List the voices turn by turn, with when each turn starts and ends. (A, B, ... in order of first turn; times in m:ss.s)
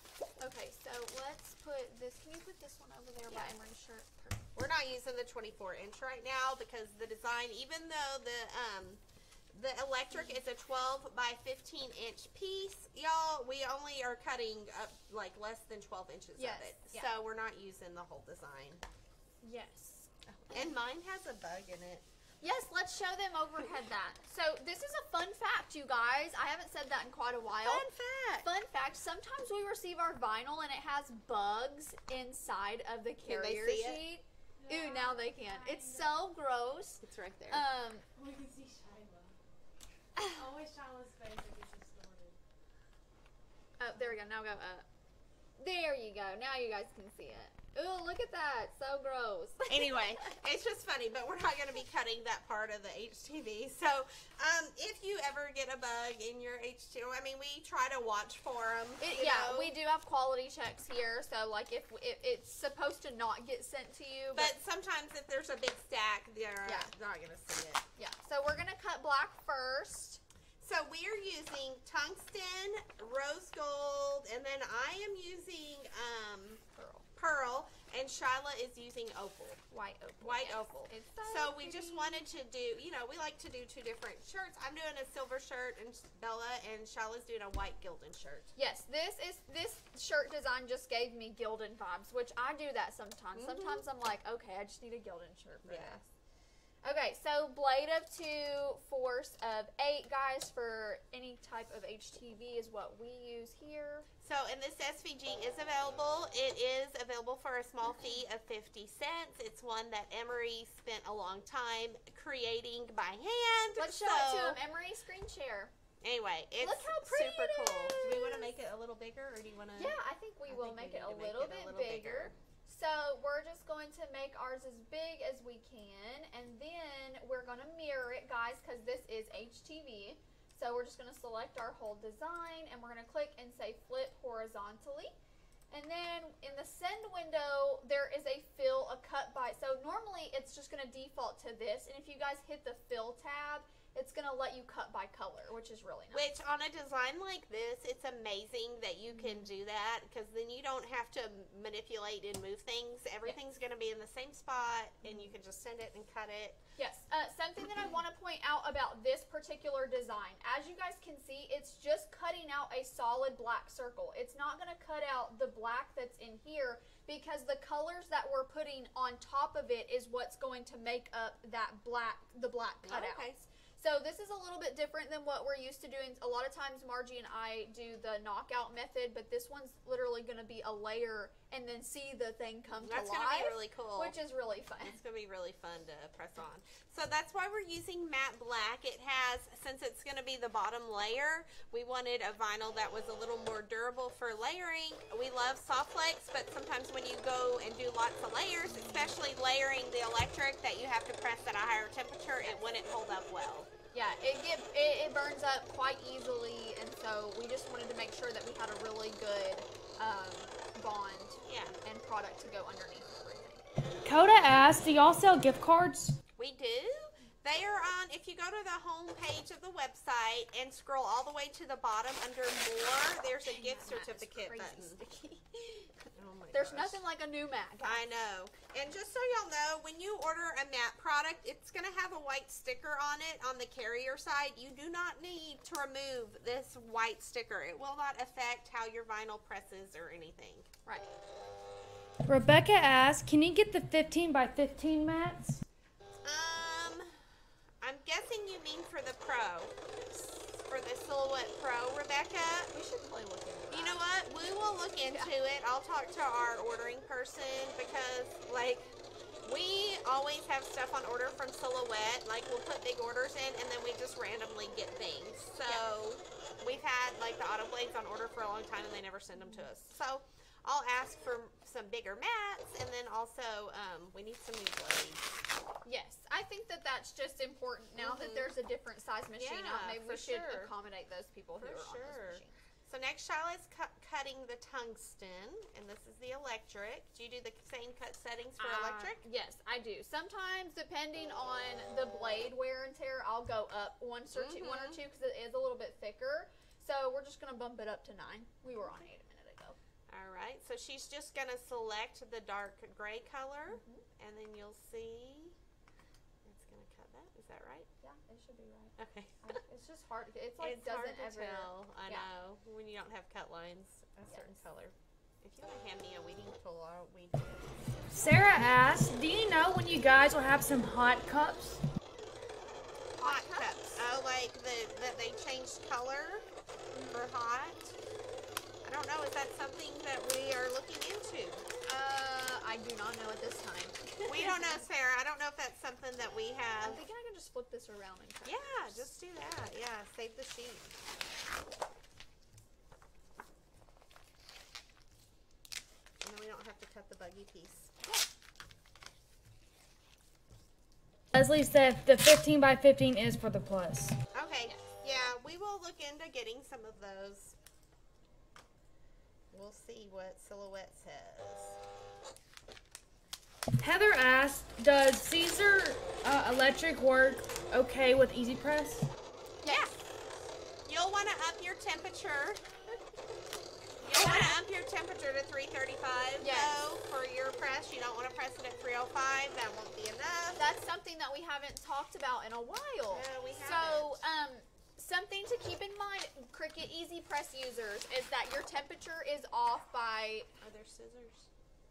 0:00.4-0:04.5 A
0:03.3-0:03.6 B
0:04.6-0:09.0 B
0:09.5-0:18.8 B
0:16.4-0:17.1 A
0:19.4-0:20.7 A
0:20.3-0:22.0 B
0:22.4-0:27.8 A
0:27.6-0:28.5 B
0:28.4-0:38.0 A
0:33.2-0:34.0 B
0:34.6-0:36.1 C
0:37.0-0:37.6 B
0:38.2-0:39.4 C
0:40.3-0:42.4 C
0:43.8-0:44.9 A
0:45.6-0:50.4 A
0:49.7-0:59.7 B
0:59.0-1:04.6 A
1:04.4-1:07.8 B
1:06.6-1:06.9 A
1:08.0-1:10.2 A
1:10.6-1:16.6 B
1:16.8-1:17.1 A
1:17.2-1:19.6 B
1:19.7-1:22.2 A
1:20.2-1:28.5 B
1:28.6-1:36.1 A
1:33.4-1:33.8 B
1:35.6-1:36.0 B
1:36.8-1:44.1 A
1:44.2-1:54.6 B
1:53.8-1:55.7 A
1:56.0-2:00.0 B
1:56.6-1:58.5 A
1:59.8-2:15.1 A
2:00.5-2:02.4 B
2:15.7-2:26.3 A
2:26.1-2:36.6 B
2:29.1-2:29.5 A
2:35.0-2:35.3 A
2:36.8-3:05.0 A
2:52.8-2:53.4 B
3:02.8-3:04.2 B
3:04.8-3:23.7 B
3:18.7-3:19.2 A
3:23.9-3:33.6 A
3:31.4-3:31.8 B
3:34.0-3:36.2 D
3:36.4-3:45.0 B
3:43.4-3:45.9 A
3:46.2-3:47.0 B
3:46.5-3:48.0 A
3:47.8-4:00.7 B
4:02.3-4:05.6 D
4:06.2-4:07.2 B
4:07.8-4:12.7 B
4:12.7-4:14.0 A
4:13.7-4:35.3 B
4:29.4-4:29.7 A
4:35.8-4:42.6 A
4:38.0-4:38.6 B
4:39.4-4:40.7 B
4:41.6-4:49.2 B
4:48.6-4:59.8 A
4:54.3-4:55.0 B
5:00.1-5:05.6 B
5:03.7-5:04.0 A
5:06.4-5:07.9 B
5:08.0-5:12.3 A
5:09.0-5:09.6 B
5:10.6-5:18.3 B
5:14.3-5:14.6 A
5:18.2-5:21.8 D
5:23.2-5:24.0 A
5:23.2-5:26.5 B
5:26.9-5:27.2 A
5:27.1-5:28.0 B
5:28.8-5:31.7 B
5:31.8-5:34.9 A
5:34.2-5:37.0 B
5:36.8-5:39.1 A
5:38.4-5:41.0 B
5:46.2-5:47.9 B
5:51.3-5:54.2 D
5:54.3-5:57.6 B
5:59.5-6:01.8 B
6:03.8-6:09.1 D
6:09.6-6:09.9 A
6:09.7-6:10.0 B
6:10.8-6:12.6 B
6:14.0-6:20.6 B
6:14.1-6:14.6 A
6:16.4-6:16.8 A
6:20.6-6:30.5 A
6:23.1-6:24.2 B
6:30.6-6:31.5 B